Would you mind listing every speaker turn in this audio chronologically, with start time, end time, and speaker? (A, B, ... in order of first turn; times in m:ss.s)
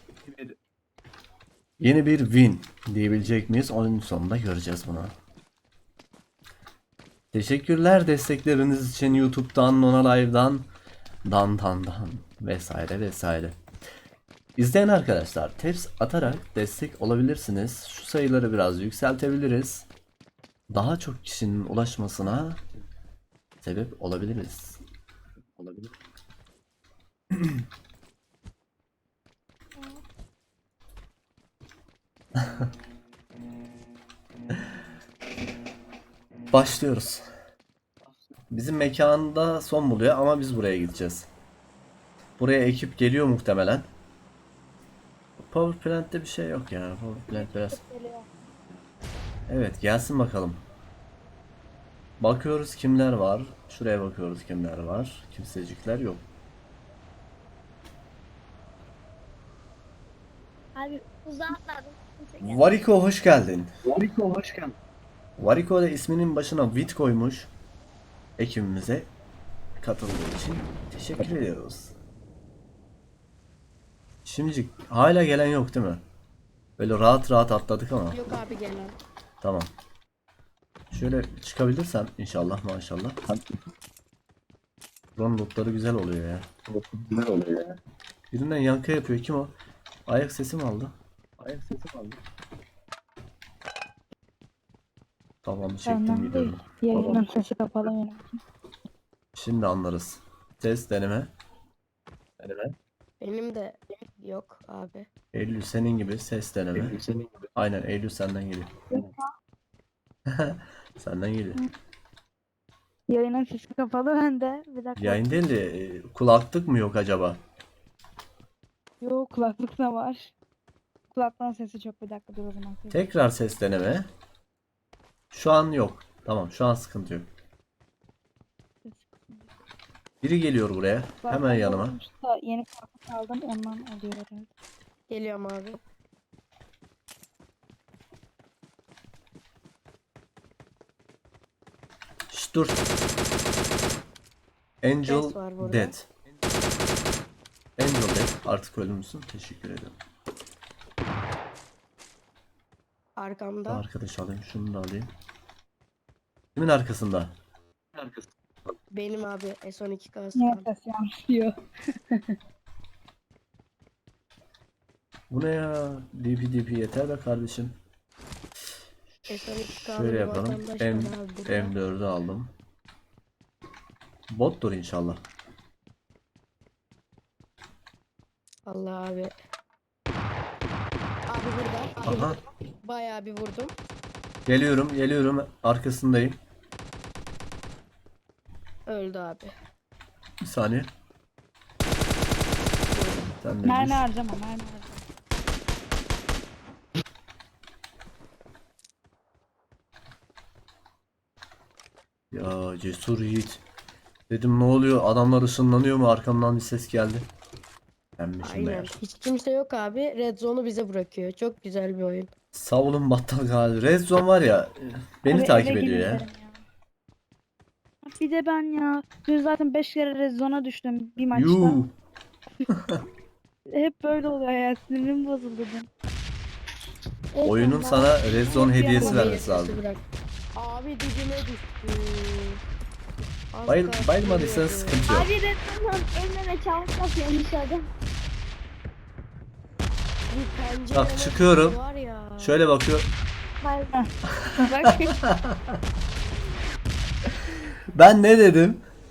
0:01.8-0:05.1 A
0:07.3-0:10.7 A
0:11.3-0:13.6 A
0:14.6-0:19.9 A
0:20.7-0:22.6 A
0:23.6-0:24.8 A
0:25.6-0:25.9 B
0:36.5-0:37.3 A
0:38.5-0:41.3 A
0:42.4-0:43.9 A
0:45.4-0:47.8 A
0:47.3-0:48.3 C
0:49.5-0:50.6 A
0:52.2-0:56.2 A
1:00.8-1:02.6 D
1:02.4-1:03.7 A
1:03.9-1:04.8 B
1:05.4-1:07.5 A
1:08.4-1:09.1 A
1:09.8-1:11.9 A
1:14.3-1:16.0 A
1:16.8-1:18.2 A
1:18.1-1:19.0 E
1:19.4-1:19.7 A
1:20.9-1:23.2 A
1:25.2-1:26.5 A
1:26.7-1:27.7 B
1:28.3-1:29.5 A
1:30.1-1:30.9 A
1:31.4-1:32.2 B
1:35.4-1:36.8 A
1:35.9-1:38.4 C
1:39.4-1:41.3 A
1:42.4-1:42.7 B
1:43.2-1:45.1 E
1:45.3-1:47.0 A
1:46.9-1:47.4 B
1:47.6-1:48.7 A
1:48.9-1:49.2 C
1:50.3-1:51.6 A
1:53.1-1:55.4 C
1:55.0-1:57.4 A
1:59.0-2:00.3 C
2:01.1-2:03.0 C
2:02.9-2:04.1 A
2:05.3-2:07.3 A
2:08.8-2:09.5 C
2:10.2-2:12.0 A
2:11.2-2:14.5 C
2:15.1-2:15.8 E
2:22.3-2:22.8 A
2:24.8-2:26.1 A
2:25.1-2:26.0 E
2:27.8-2:30.0 A
2:33.2-2:33.8 E
2:33.7-2:35.1 A
2:36.6-2:37.3 A
2:38.9-2:40.7 E
2:40.4-2:41.6 C
2:42.1-2:42.4 C
2:45.3-2:47.8 A
2:49.3-2:51.8 E
2:49.6-2:52.5 A
2:54.3-2:55.2 A
2:58.7-2:59.4 E
3:01.3-3:03.7 E
3:02.0-3:02.4 A
3:04.5-3:06.4 A
3:08.9-3:09.5 E
3:10.4-3:10.9 A
3:12.9-3:13.3 E
3:13.4-3:14.1 A
3:13.6-3:15.0 C
3:22.3-3:23.6 A
3:24.3-3:27.3 A
3:28.2-3:29.0 A
3:28.4-3:32.3 E
3:32.5-3:36.3 A
3:35.3-3:36.6 C
3:38.0-3:41.8 C
3:41.3-3:41.9 A
3:42.7-3:43.0 A
3:43.7-3:45.9 C
3:47.3-3:48.4 D
3:47.4-3:49.8 A
3:48.4-3:49.5 C
3:49.0-3:50.0 E
3:50.6-3:52.6 E
3:53.5-3:55.0 E
3:53.7-3:55.3 A
3:55.1-3:57.9 D
4:00.3-4:02.6 E
4:00.9-4:01.8 A
4:02.4-4:03.1 A
4:03.6-4:04.0 D
4:04.4-4:05.6 A
4:04.6-4:05.2 C
4:07.9-4:08.8 A